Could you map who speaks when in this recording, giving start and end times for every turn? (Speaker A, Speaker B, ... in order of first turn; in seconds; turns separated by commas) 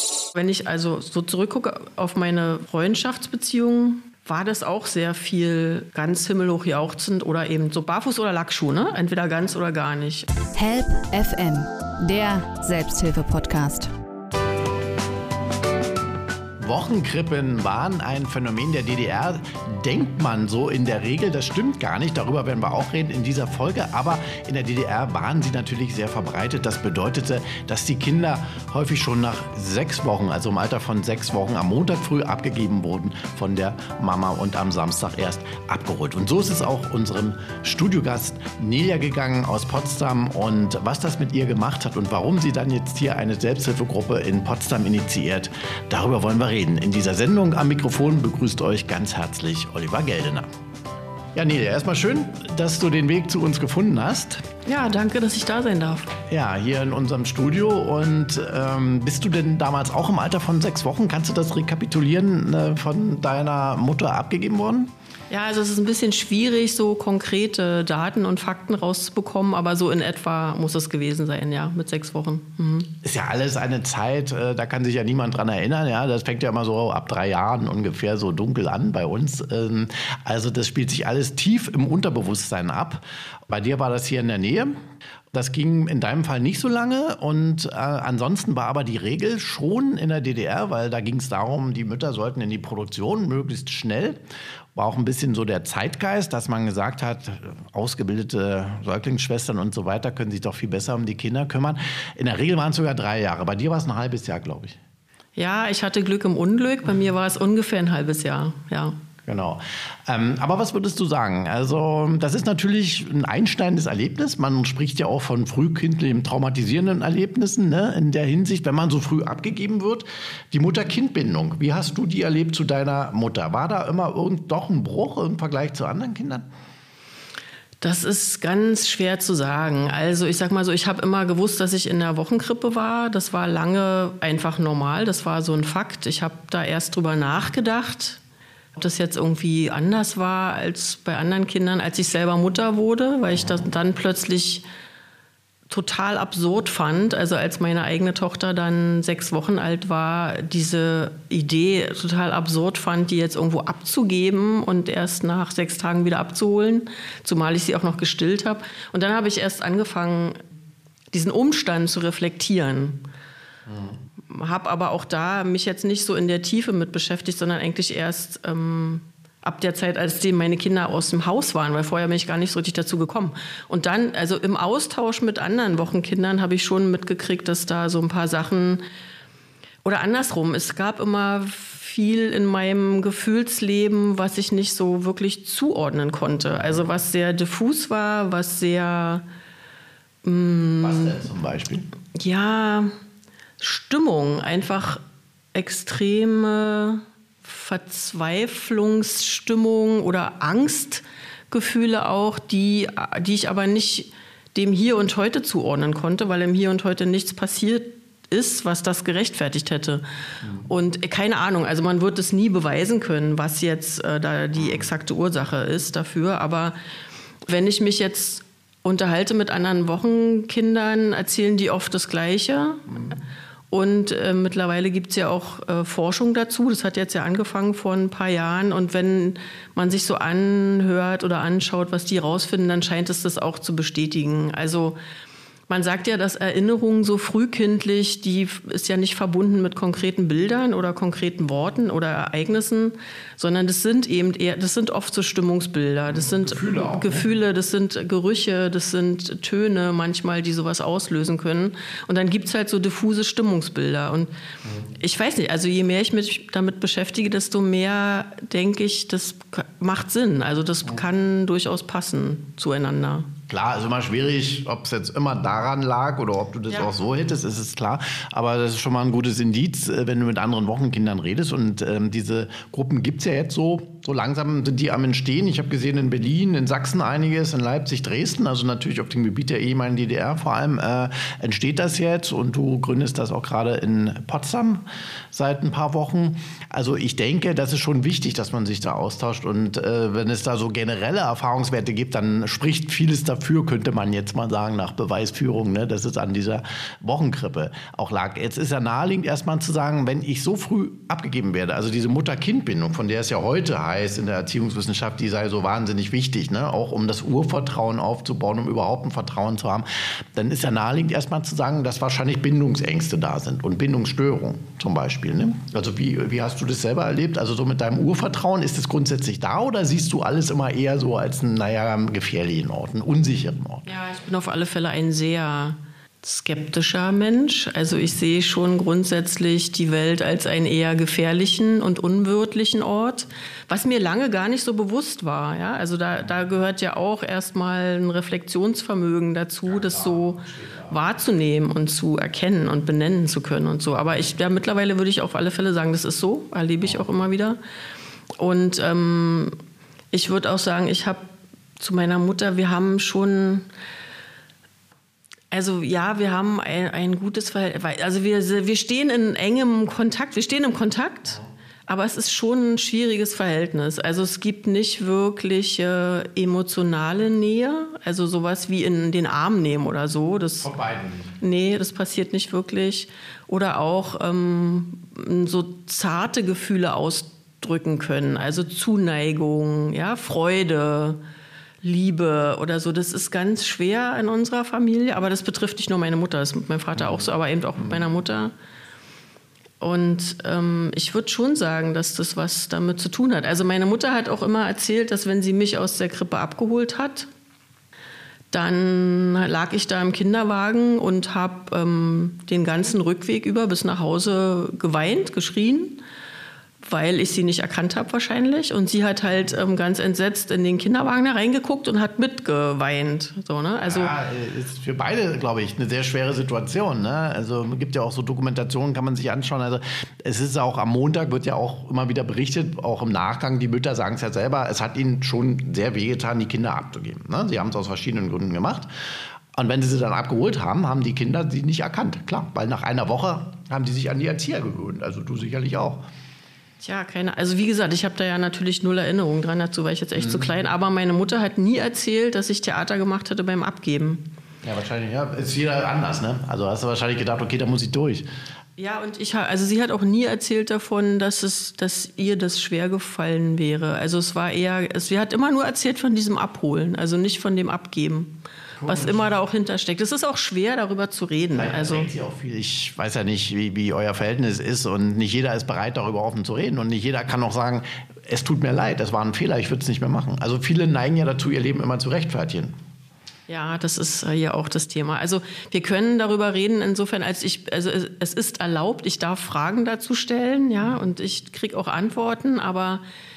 Speaker A: 0.3-10.3, Speaker B: 10.5-13.9, Speaker C: 16.6-50.5, Speaker C: 51.4-54.5, Speaker A: 54.7-56.1, Speaker C: 56.2-64.9, Speaker A: 65.3-72.9, Speaker C: 73.0-84.7, Speaker C: 85.3-94.2, Speaker C: 94.8-104.8, Speaker A: 105.4-109.0, Speaker C: 109.3-126.5, Speaker A: 127.8-138.2, Speaker A: 138.8-144.7, Speaker A: 145.7-160.4, Speaker A: 161.1-163.0, Speaker C: 163.7-164.0, Speaker A: 164.3-178.8, Speaker A: 179.8-189.2, Speaker C: 186.6-186.9, Speaker A: 190.2-191.2, Speaker C: 190.8-191.9, Speaker A: 192.2-192.9, Speaker A: 193.6-195.0, Speaker A: 195.5-210.0, Speaker A: 210.7-216.8, Speaker A: 217.5-223.2, Speaker A: 223.7-235.0, Speaker A: 235.7-254.3, Speaker C: 246.1-247.3, Speaker A: 255.0-263.3, Speaker C: 263.5-323.9, Speaker A: 323.9-347.6, Speaker C: 339.7-341.0, Speaker A: 348.4-349.6, Speaker A: 350.1-351.3, Speaker A: 351.8-353.7, Speaker A: 355.5-370.7, Speaker C: 370.6-371.4, Speaker A: 371.4-381.2, Speaker A: 381.8-388.5, Speaker C: 387.0-387.2, Speaker A: 389.8-397.3, Speaker A: 398.5-406.0, Speaker A: 406.8-414.1, Speaker C: 413.9-428.9, Speaker C: 429.5-436.0, Speaker A: 436.8-444.2, Speaker C: 440.2-440.5, Speaker C: 444.6-448.3, Speaker A: 448.8-462.1, Speaker C: 458.8-459.3, Speaker C: 461.5-472.8, Speaker A: 473.5-483.0